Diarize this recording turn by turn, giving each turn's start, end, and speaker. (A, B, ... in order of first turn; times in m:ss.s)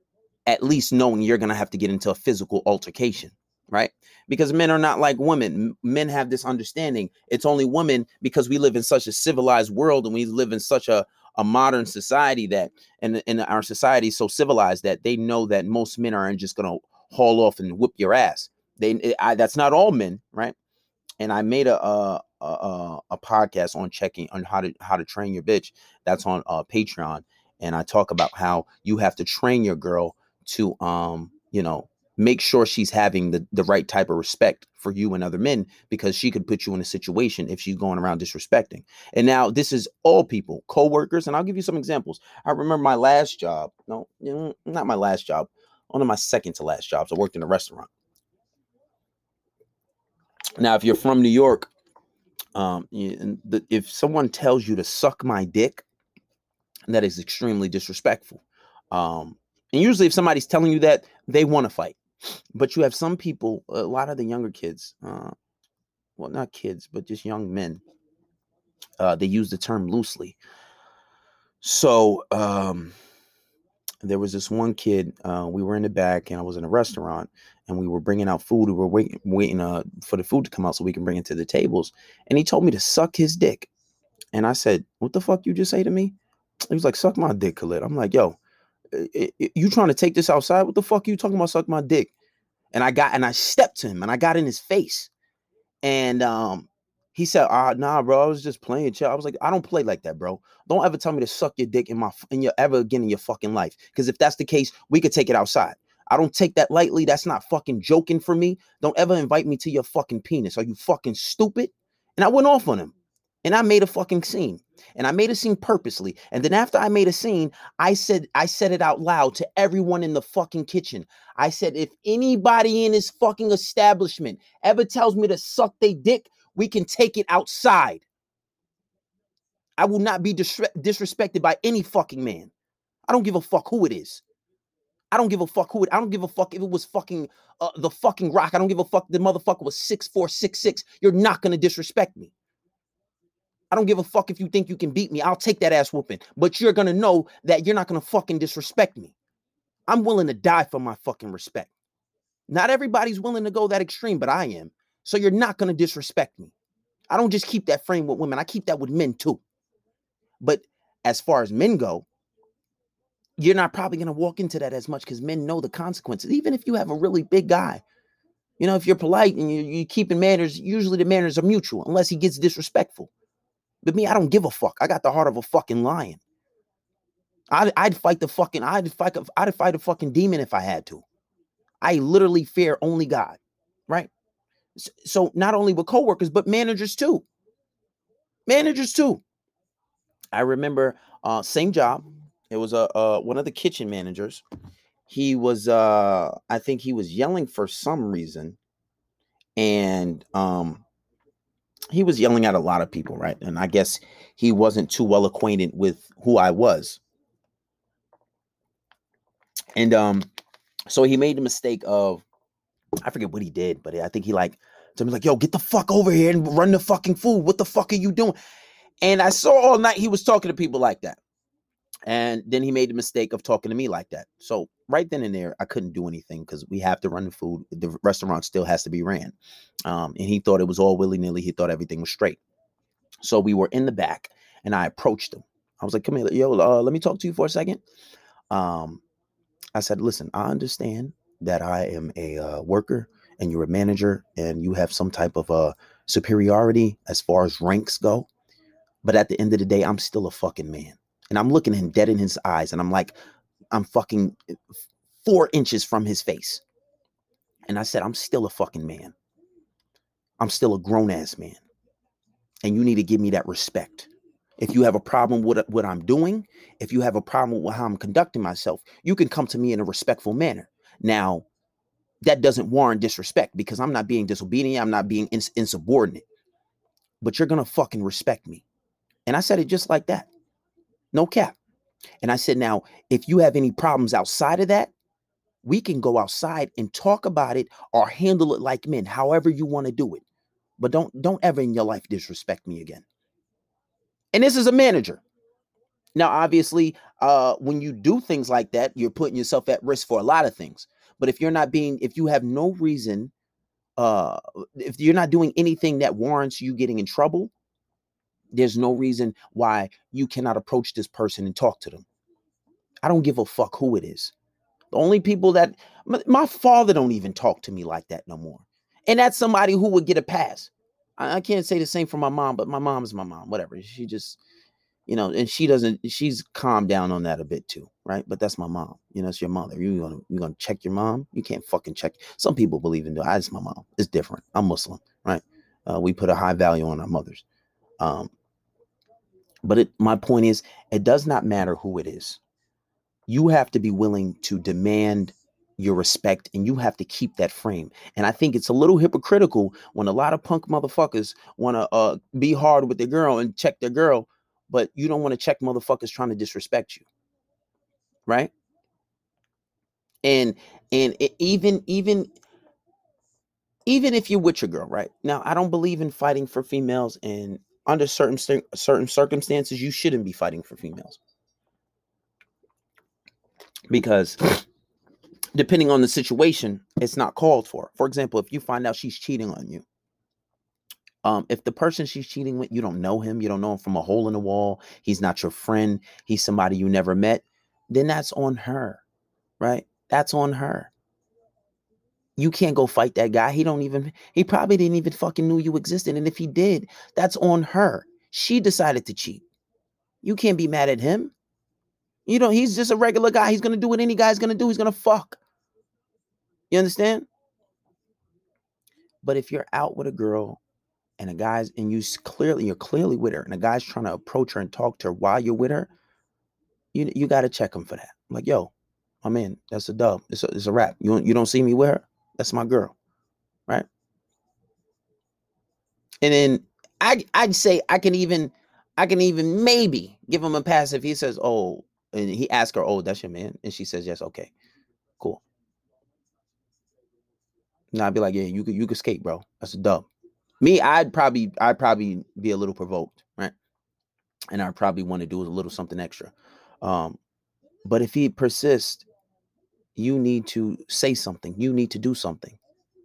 0:00.5-0:20.5 A
0:21.2-0:47.9 A
0:50.6-0:51.7 A
0:52.6-0:55.8 A
0:56.9-1:02.0 A
1:02.5-1:05.3 A
1:06.2-1:07.8 A
1:09.0-1:10.4 A
1:11.6-1:12.9 A
1:14.0-1:23.7 A
1:24.3-1:26.2 A
1:26.7-1:28.4 A
1:28.9-1:32.1 A
1:32.7-1:35.1 A
1:35.8-2:08.0 A
2:09.8-2:12.5 A
2:13.1-2:14.2 A
2:15.1-2:22.3 A
2:23.7-2:29.2 A
2:29.9-2:31.7 A
2:32.5-2:36.5 A
2:37.1-2:39.4 A
2:40.4-2:42.1 A
2:43.4-2:47.8 A
2:48.6-2:53.1 A
2:53.8-2:56.2 A
2:57.5-3:01.0 A
3:01.8-3:04.1 A
3:04.8-3:07.2 A
3:08.5-3:09.2 A
3:10.3-3:14.4 A
3:15.1-3:18.6 A
3:19.6-3:20.8 A
3:21.9-3:27.0 A
3:29.8-3:30.3 A
3:30.9-3:32.2 A
3:33.0-3:38.4 A
3:39.0-3:41.2 A
3:42.1-3:52.4 A
3:53.2-3:57.8 A
3:58.5-3:59.0 A
3:59.8-4:08.3 A
4:09.0-4:13.1 A
4:13.7-4:14.4 A
4:15.2-4:16.6 A
4:17.7-4:19.1 A
4:20.4-4:21.6 A
4:22.6-4:31.5 A
4:32.2-4:36.2 A
4:37.2-4:38.6 A
4:39.3-4:40.3 A
4:41.1-4:41.6 A
4:42.2-4:44.9 A
4:45.6-4:50.2 A
4:50.8-4:53.0 A
4:54.3-4:55.2 A
4:56.2-5:03.3 A
5:04.0-5:07.5 A
5:08.5-5:12.1 A
5:13.0-5:14.3 A
5:14.9-5:24.4 A
5:25.1-5:37.4 A
5:38.0-5:38.3 A
5:39.6-5:42.4 A
5:43.3-5:57.0 A
5:58.3-5:58.5 A
6:00.2-6:02.3 A
6:03.9-6:11.2 A
6:13.9-6:14.6 A
6:15.6-6:19.8 A
6:21.2-6:29.0 A
6:29.6-6:30.9 A
6:32.4-6:39.4 A
6:40.2-6:41.3 A
6:42.3-6:45.4 A
6:46.7-6:47.3 A
6:49.2-6:50.6 A
6:51.2-6:55.9 A
6:56.9-6:58.7 A
6:59.2-7:03.0 A
7:06.2-7:14.5 A
7:17.9-7:20.1 A
7:20.6-7:23.5 A
7:24.5-7:27.2 A
7:27.8-7:29.1 A
7:30.0-7:32.6 A